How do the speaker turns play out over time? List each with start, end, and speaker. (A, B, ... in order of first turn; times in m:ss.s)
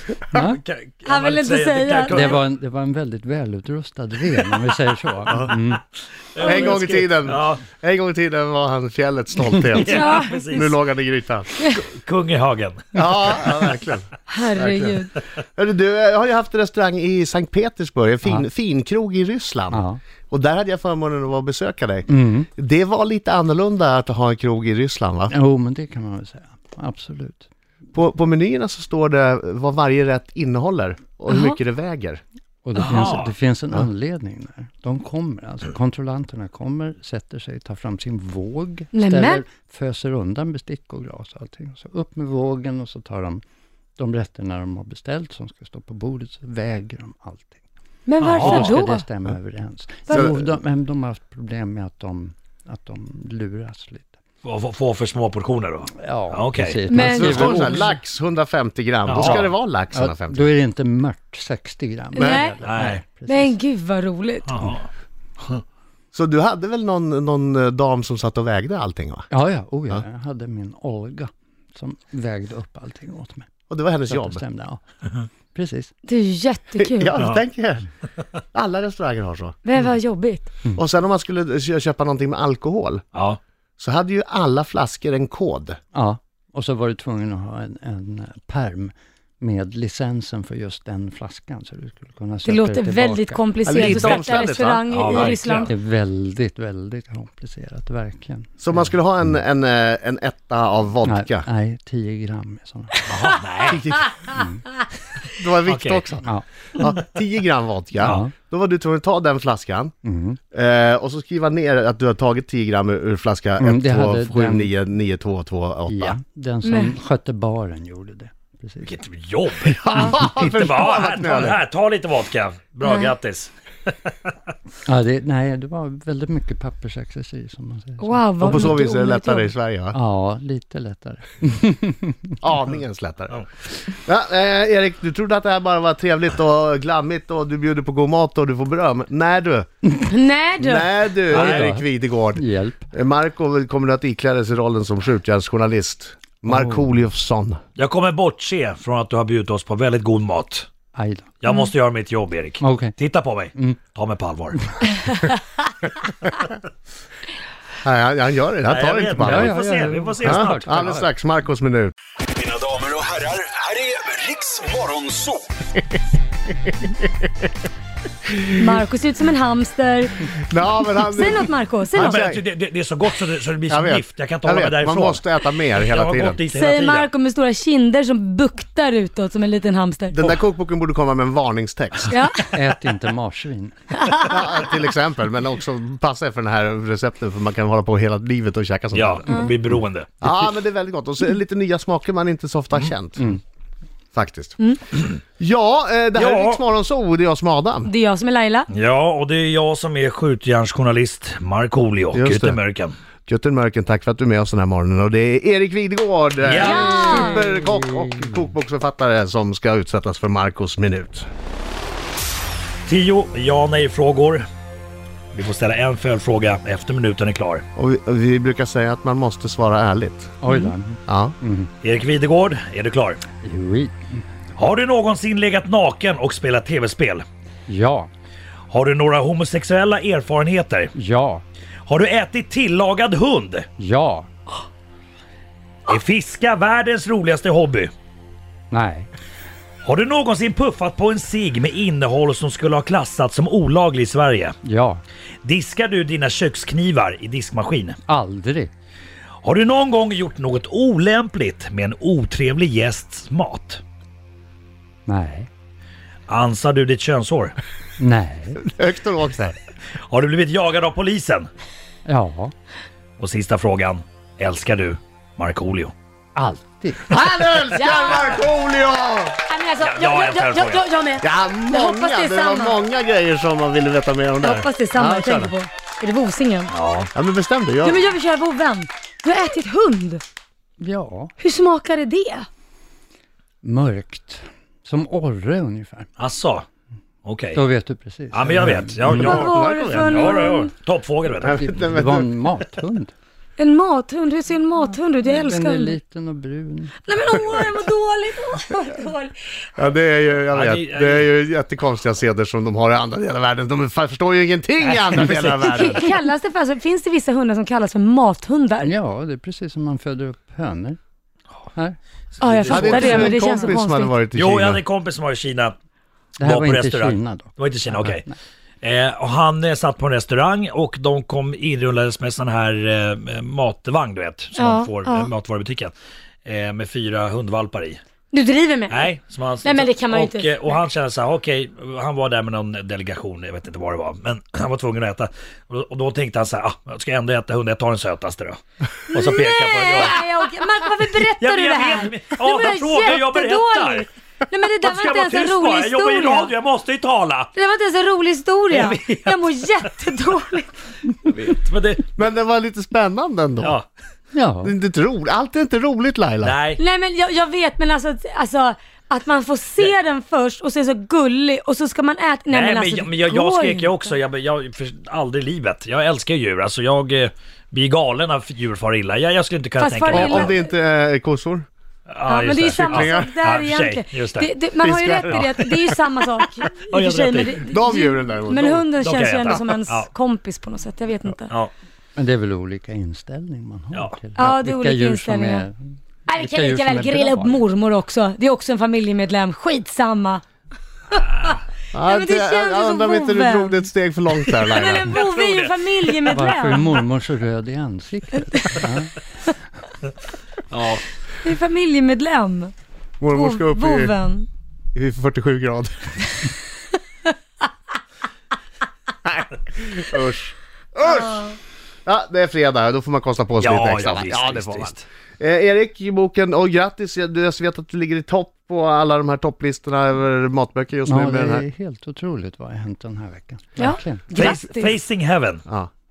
0:00.3-0:00.6 A
0:00.4-0:02.4 B
0:01.1-0:02.4 C
0:02.1-0:05.8 A
0:05.3-0:05.6 D
0:06.3-0:07.6 B
0:06.4-0:11.5 D
0:09.7-0:10.8 B
0:09.8-0:10.4 C
0:11.7-0:13.4 B
0:13.0-0:25.3 D
0:14.3-0:15.1 C
0:19.7-0:20.0 A
0:22.1-0:22.5 A
0:25.3-0:27.5 A
0:27.9-0:32.2 D
0:31.3-0:31.6 C
0:32.6-0:43.4 A
0:32.8-0:33.3 B
0:38.9-0:39.4 C
0:44.0-0:47.6 A
0:48.1-0:49.0 C
0:48.2-0:48.8 B
0:48.2-0:54.2 A
0:50.1-0:50.4 D
0:54.4-0:56.8 B
0:56.0-0:58.0 A
0:56.9-0:57.7 C
0:56.9-1:00.5 D
0:59.1-0:59.5 B
0:59.2-1:03.6 A
1:02.2-1:02.4 D
1:02.2-1:02.6 C
1:02.6-1:03.0 B
1:03.3-1:04.6 C
1:04.5-1:04.8 B
1:06.1-1:09.3 D
1:09.3-1:13.5 A
1:13.7-1:14.4 D
1:14.1-1:14.8 A
1:15.5-1:15.9 A
1:16.1-1:17.2 C
1:16.8-1:17.9 D
1:17.2-1:17.4 B
1:18.5-1:19.6 D
1:19.6-1:20.5 C
1:20.8-1:23.0 D
1:23.1-1:23.4 B
1:23.8-1:25.8 D
1:25.9-1:34.2 A
1:32.4-1:35.7 C
1:33.7-1:35.3 D
1:33.8-1:35.7 B
1:35.6-1:38.9 A
1:38.6-1:41.5 D
1:41.0-1:43.0 A
1:43.1-1:43.8 B
1:43.6-1:44.2 D
1:44.3-1:44.6 A
1:45.4-1:49.9 D
1:45.6-1:46.0 B
1:48.0-1:48.3 A
1:50.0-1:50.4 A
1:50.5-1:56.2 D
1:53.6-1:54.8 A
1:55.9-1:59.0 A
1:56.6-1:56.9 C
1:58.8-2:04.3 B
1:59.6-2:00.4 A
1:59.8-2:01.6 D
2:02.8-2:03.1 C
2:04.8-2:08.7 A
2:08.0-2:09.5 C
2:08.4-2:10.0 D
2:09.9-2:12.4 A
2:12.4-2:19.7 D
2:20.1-2:20.9 C
2:20.6-2:27.6 D
2:21.3-2:22.9 A
2:21.3-2:21.7 B
2:26.4-2:27.0 A
2:27.8-2:30.7 B
2:31.0-2:31.4 A
2:31.4-2:34.6 B
2:32.6-2:33.0 A
2:33.5-2:33.8 A
2:37.8-2:39.5 D
2:38.7-2:41.0 B
2:39.2-2:41.1 A
2:40.2-2:41.9 D
2:42.4-2:45.5 E
2:48.6-2:50.3 C
2:50.3-2:52.4 D
2:51.0-2:52.2 C
2:52.0-2:57.1 B
2:53.7-2:56.4 D
2:56.5-3:00.2 C
3:00.1-3:02.2 D
3:02.1-3:02.5 C
3:02.5-3:03.8 A
3:04.0-3:04.3 C
3:04.2-3:09.5 D
3:08.9-3:10.1 B
3:10.2-3:13.4 D
3:14.1-3:14.6 D
3:15.4-3:17.9 D
3:16.2-3:16.6 B
3:17.9-3:18.7 C
3:18.7-3:22.9 B
3:22.1-3:22.6 D
3:23.3-3:31.3 D
3:26.4-3:27.0 B
3:26.6-3:27.4 C
3:27.1-3:28.5 A
3:32.9-3:34.5 B
3:35.3-3:37.6 B
3:37.8-3:40.4 D
3:40.4-3:41.7 A
3:41.1-3:41.4 D
3:41.8-3:43.2 B
3:43.4-3:44.2 A
3:44.6-3:47.2 B
3:47.7-3:48.1 A
3:48.7-3:50.9 B
3:50.9-3:51.4 A
3:51.8-3:53.7 B
3:53.8-3:54.3 A
3:55.9-3:57.9 B
3:58.7-3:59.1 A
3:59.8-4:04.6 B
4:04.6-4:05.0 A
4:05.4-4:08.0 B
4:08.1-4:08.7 A
4:09.4-4:13.8 B
4:15.1-4:15.5 A
4:16.3-4:17.6 B
4:18.0-4:18.6 A
4:18.6-4:19.6 D
4:20.1-4:21.5 B
4:22.1-4:22.5 A
4:23.2-4:25.9 B
4:26.4-4:27.2 A
4:27.1-4:29.4 D
4:27.7-4:28.4 C
4:29.5-4:32.8 C
4:29.8-4:30.9 B
4:31.2-4:35.5 D
4:34.4-4:36.7 C
4:35.0-4:35.4 A
4:36.7-4:37.1 B
4:37.1-4:38.1 D
4:37.8-4:40.2 C
4:40.8-4:41.3 A
4:41.4-4:42.5 C
4:43.6-4:46.1 A
4:46.2-4:46.6 B
4:47.2-4:47.6 B
4:47.5-4:49.4 A
4:48.3-4:51.6 B
4:49.1-4:50.4 D
4:49.2-4:50.7 C
4:51.4-4:52.3 D
4:51.4-4:53.1 A
4:53.6-4:56.0 C
4:55.2-4:57.0 A
4:57.0-4:59.4 C
4:59.8-5:06.0 D
5:00.5-5:01.3 B
5:04.9-5:05.6 B
5:05.2-5:06.0 A
5:05.7-5:08.9 C
5:08.8-5:11.0 A
5:11.7-5:13.8 A
5:12.4-5:14.2 C
5:12.6-5:14.8 D
5:14.3-5:15.8 B
5:16.4-5:18.4 A
5:16.4-5:18.2 B
5:18.8-5:25.9 B
5:24.6-5:25.3 C
5:26.4-5:28.0 B
5:28.3-5:30.7 C
5:28.9-5:38.6 B
5:39.1-5:40.2 B
5:39.1-5:46.5 C
5:41.1-5:44.1 B
5:44.8-5:47.5 B
5:47.6-5:50.7 C
5:48.7-5:50.3 B
5:51.2-5:52.1 B
5:52.2-5:53.8 D
5:53.6-5:53.9 B
5:54.3-5:54.8 A
5:54.6-5:56.6 D
5:56.4-5:56.8 B
5:56.8-6:04.1 C
6:02.5-6:10.6 B
6:09.8-6:10.7 C
6:10.1-6:11.7 D
6:12.1-6:14.5 B
6:12.3-6:21.5 C
6:12.8-6:13.3 D
6:14.8-6:16.0 D
6:16.9-6:17.6 B
6:17.6-6:18.9 D
6:19.0-6:20.1 B
6:22.2-6:27.6 A
6:24.4-6:25.7 C
6:26.3-6:30.4 C
6:31.2-6:31.6 B
6:31.9-6:35.1 D
6:32.1-6:33.8 C
6:34.4-6:36.9 C
6:35.0-6:36.3 B
6:36.3-6:39.2 A
6:40.7-6:41.0 B
6:41.4-6:42.7 C
6:43.2-6:44.1 D
6:43.3-6:44.5 C
6:45.0-6:46.2 D
6:49.2-6:51.6 D
6:51.2-6:51.5 C
6:52.1-7:01.7 D
6:53.6-6:55.0 B
7:01.1-7:04.4 A
7:03.8-7:05.0 C
7:04.3-7:05.6 B